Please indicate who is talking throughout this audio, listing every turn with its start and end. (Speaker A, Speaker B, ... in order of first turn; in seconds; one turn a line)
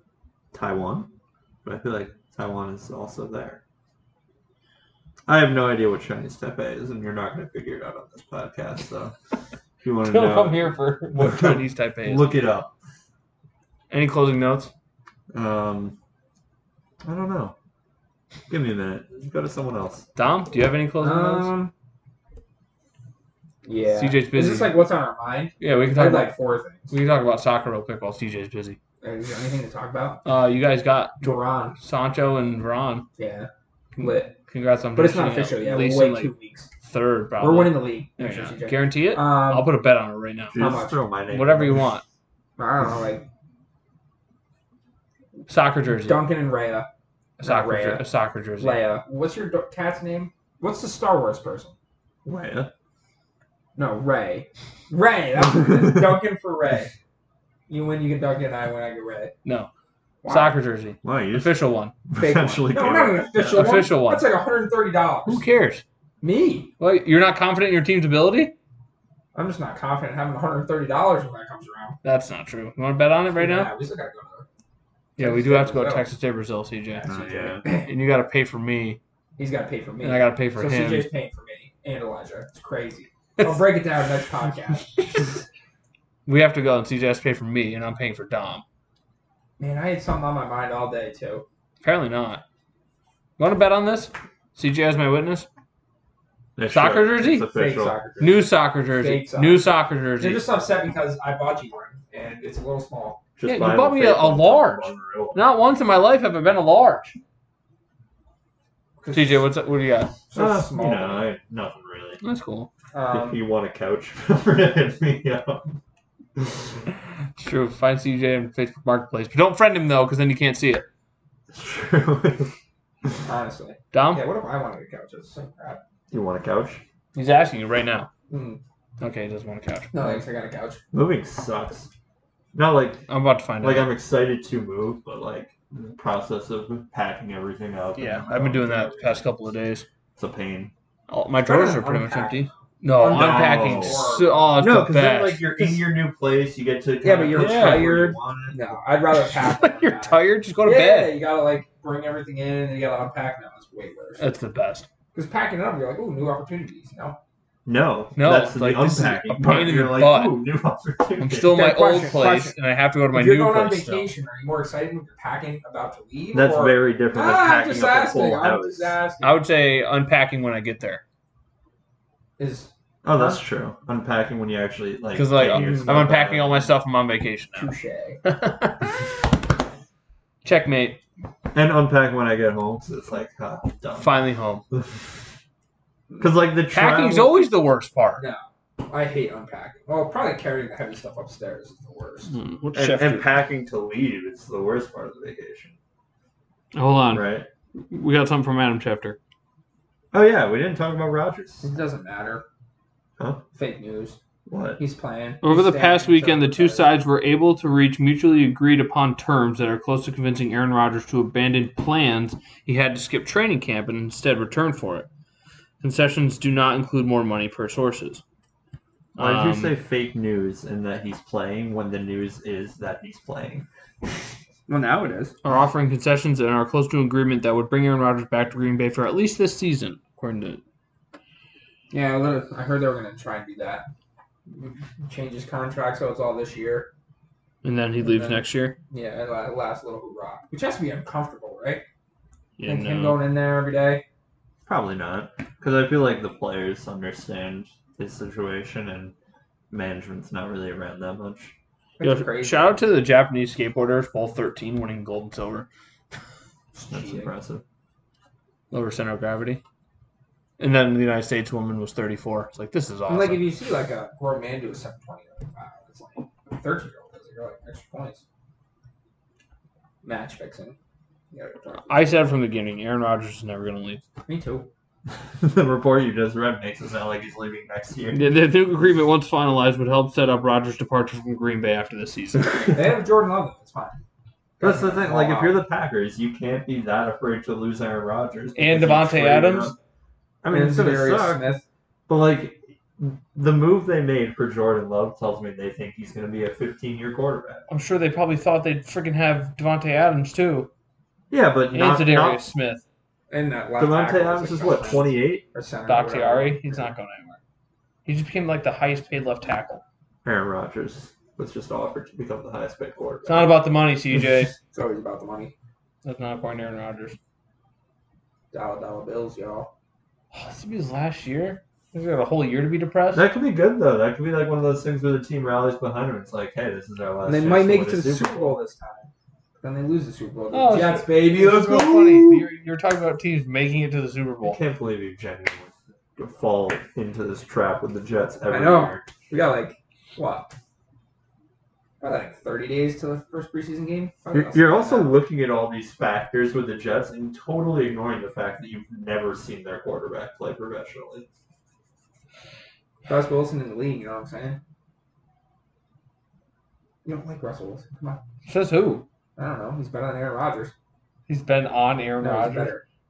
Speaker A: 0.5-1.1
Speaker A: 1.6-3.6
Speaker A: 5.3-9.1
Speaker A: 9.8-12.7
Speaker B: 10.0-12.3
Speaker B: 13.9-14.7
Speaker A: 15.3-15.9
Speaker A: 17.0-17.5
Speaker A: 18.5-20.1
Speaker B: 20.1-21.5
Speaker C: 21.0-21.7
Speaker C: 23.6-26.9
Speaker B: 23.9-24.8
Speaker B: 25.6-26.3
Speaker B: 26.9-28.8
Speaker C: 29.0-30.2
Speaker B: 30.2-33.1
Speaker C: 31.2-31.8
Speaker C: 33.2-34.3
Speaker B: 34.5-36.3
Speaker C: 34.9-36.7
Speaker B: 36.8-40.7
Speaker C: 37.4-39.7
Speaker C: 40.5-41.0
Speaker A: 40.5-41.9
Speaker B: 41.3-42.0
Speaker C: 42.6-43.2
Speaker B: 45.5-46.2
Speaker C: 46.0-46.9
Speaker C: 47.4-51.7
Speaker B: 47.4-48.8
Speaker A: 52.2-52.7
Speaker C: 53.8-56.9
Speaker C: 57.7-59.3
Speaker B: 59.4-59.7
Speaker C: 60.2-60.6
Speaker B: 60.3-61.9
Speaker A: 61.0-61.6
Speaker A: 62.1-63.7
Speaker C: 62.1-65.5
Speaker B: 63.4-64.3
Speaker B: 65.2-65.8
Speaker C: 66.2-66.7
Speaker B: 66.8-68.5
Speaker C: 69.3-72.0
Speaker B: 72.0-73.7
Speaker C: 73.3-74.5
Speaker C: 75.2-76.1
Speaker B: 75.2-77.1
Speaker C: 77.0-77.9
Speaker A: 77.1-77.6
Speaker B: 77.6-79.0
Speaker C: 79.4-85.4
Speaker B: 80.0-81.1
Speaker B: 86.2-88.6
Speaker C: 89.6-91.4
Speaker B: 91.8-92.4
Speaker B: 93.4-95.5
Speaker A: 96.6-98.0
Speaker B: 96.7-97.5
Speaker C: 97.5-103.2
Speaker B: 98.2-100.4
Speaker A: 103.4-105.5
Speaker B: 103.5-107.1
Speaker C: 109.0-109.5
Speaker B: 109.1-110.1
Speaker C: 110.3-111.3
Speaker A: 110.3-112.2
Speaker B: 112.2-112.7
Speaker C: 112.9-113.4
Speaker A: 113.1-115.8
Speaker B: 117.4-120.8
Speaker A: 121.5-122.5
Speaker C: 123.2-125.8
Speaker B: 123.9-124.2
Speaker A: 126.1-126.8
Speaker B: 127.1-128.1
Speaker C: 128.3-128.6
Speaker B: 129.0-129.9
Speaker C: 129.9-130.8
Speaker A: 130.9-131.9
Speaker A: 132.5-133.1
Speaker B: 133.1-133.9
Speaker A: 133.6-139.3
Speaker B: 138.0-139.8
Speaker A: 140.2-140.7
Speaker B: 141.1-145.5
Speaker C: 141.4-144.6
Speaker A: 143.1-148.7
Speaker C: 147.0-154.2
Speaker B: 147.3-148.0
Speaker B: 149.2-151.1
Speaker B: 154.2-154.9
Speaker C: 155.1-157.2
Speaker A: 157.7-161.7
Speaker B: 158.2-160.4
Speaker B: 161.2-164.1
Speaker C: 161.5-162.6
Speaker C: 163.1-169.4
Speaker A: 166.3-169.0
Speaker B: 169.2-171.0
Speaker C: 172.4-173.4
Speaker A: 173.0-176.7
Speaker B: 175.1-177.7
Speaker C: 175.5-175.9
Speaker C: 177.5-178.2
Speaker B: 178.2-179.0
Speaker B: 180.4-181.0
Speaker A: 181.5-184.2
Speaker B: 184.0-184.6
Speaker A: 184.7-185.0
Speaker A: 186.2-187.4
Speaker B: 186.7-188.2
Speaker C: 188.2-192.3
Speaker B: 192.3-193.4
Speaker A: 192.7-195.8
Speaker B: 196.7-199.2
Speaker A: 197.1-197.4
Speaker A: 200.1-201.7
Speaker C: 201.6-202.4
Speaker C: 203.5-204.2
Speaker A: 204.5-204.8
Speaker C: 204.8-206.9
Speaker B: 205.4-215.1
Speaker B: 215.8-218.2
Speaker B: 219.2-219.7
Speaker A: 219.2-223.7
Speaker C: 224.7-225.3
Speaker B: 225.4-230.6
Speaker C: 231.9-233.8
Speaker C: 234.5-236.9
Speaker B: 237.6-238.8
Speaker C: 238.0-241.8
Speaker B: 242.6-243.2
Speaker C: 242.6-244.0
Speaker A: 244.7-249.1
Speaker A: 249.7-251.5
Speaker C: 252.0-252.8
Speaker B: 252.0-255.7
Speaker C: 256.7-257.3
Speaker A: 256.9-257.6
Speaker B: 258.7-259.6
Speaker B: 260.6-263.5
Speaker C: 263.1-268.2
Speaker C: 270.0-270.8
Speaker C: 271.3-272.2
Speaker B: 271.9-274.0
Speaker C: 274.2-274.7
Speaker A: 275.4-278.3
Speaker B: 278.1-282.8
Speaker C: 282.7-284.0
Speaker C: 284.6-285.6
Speaker A: 284.6-289.7
Speaker B: 288.6-289.7
Speaker A: 290.4-291.6
Speaker C: 290.5-291.6
Speaker A: 292.1-297.6
Speaker B: 297.7-300.7
Speaker A: 301.3-302.4
Speaker B: 301.7-302.8
Speaker C: 303.3-306.9
Speaker A: 303.8-305.4
Speaker B: 305.9-307.4
Speaker B: 308.1-309.8
Speaker A: 310.2-313.6
Speaker B: 313.2-314.6
Speaker C: 314.7-315.5
Speaker B: 316.0-317.2
Speaker C: 318.5-319.7
Speaker B: 320.3-323.3
Speaker A: 323.1-328.6
Speaker C: 327.2-331.9
Speaker B: 330.5-334.6
Speaker A: 331.4-332.4
Speaker A: 334.4-339.1
Speaker C: 338.5-340.5
Speaker C: 342.0-345.1
Speaker A: 344.3-351.3
Speaker C: 353.1-354.6
Speaker C: 357.0-358.2
Speaker B: 358.4-359.1
Speaker C: 359.4-360.7
Speaker B: 361.3-362.7
Speaker C: 362.2-362.8